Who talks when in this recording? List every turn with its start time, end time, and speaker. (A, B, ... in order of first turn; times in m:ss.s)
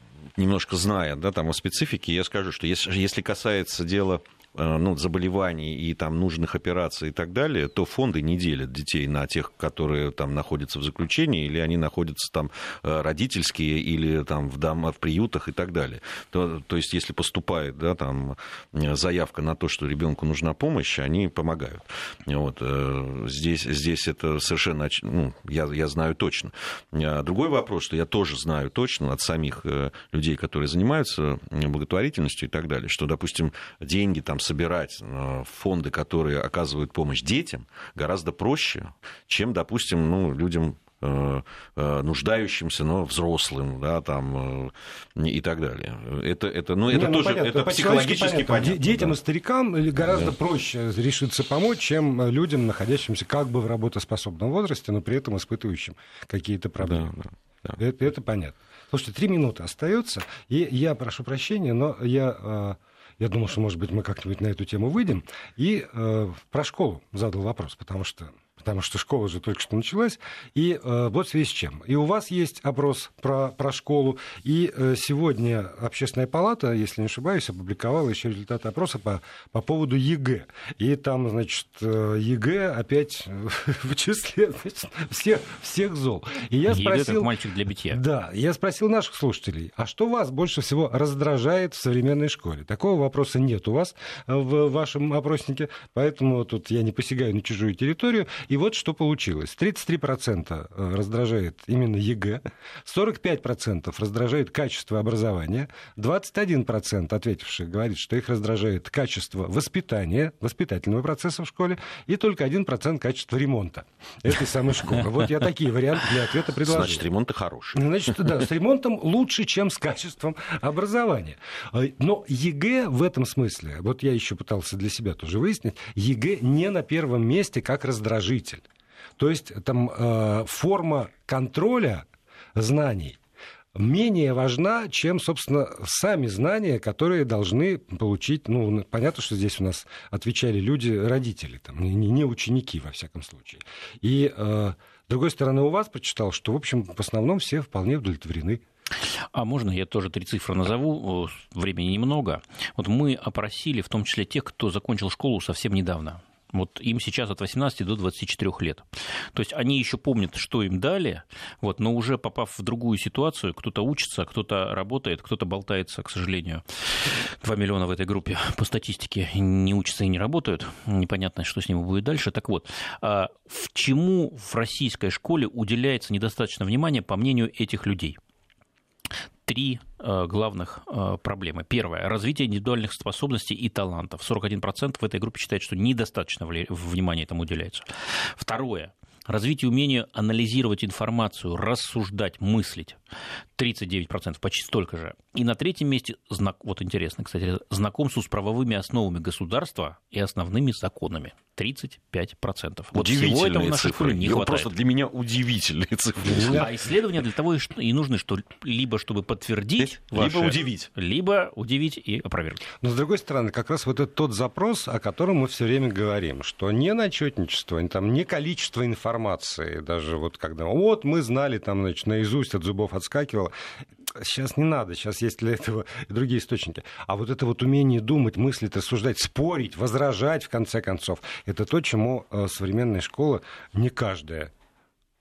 0:00.4-0:49.1 A
0:46.9-0:57.2 B
0:56.9-0:57.8 A
0:57.8-1:27.3 B
1:26.7-1:28.0 C
1:27.9-1:57.0 B
1:56.6-1:57.9 A
1:57.8-2:08.6 B
2:09.2-2:13.2 B
2:13.7-2:28.6 B
2:29.3-2:58.2 C
2:59.4-3:13.0 C
3:13.6-3:24.7 C
3:22.9-3:26.7 A
3:26.2-3:32.6 C
3:26.3-3:26.7 B
3:29.8-3:30.9 A
3:32.8-3:43.5 B
3:44.0-3:54.5 B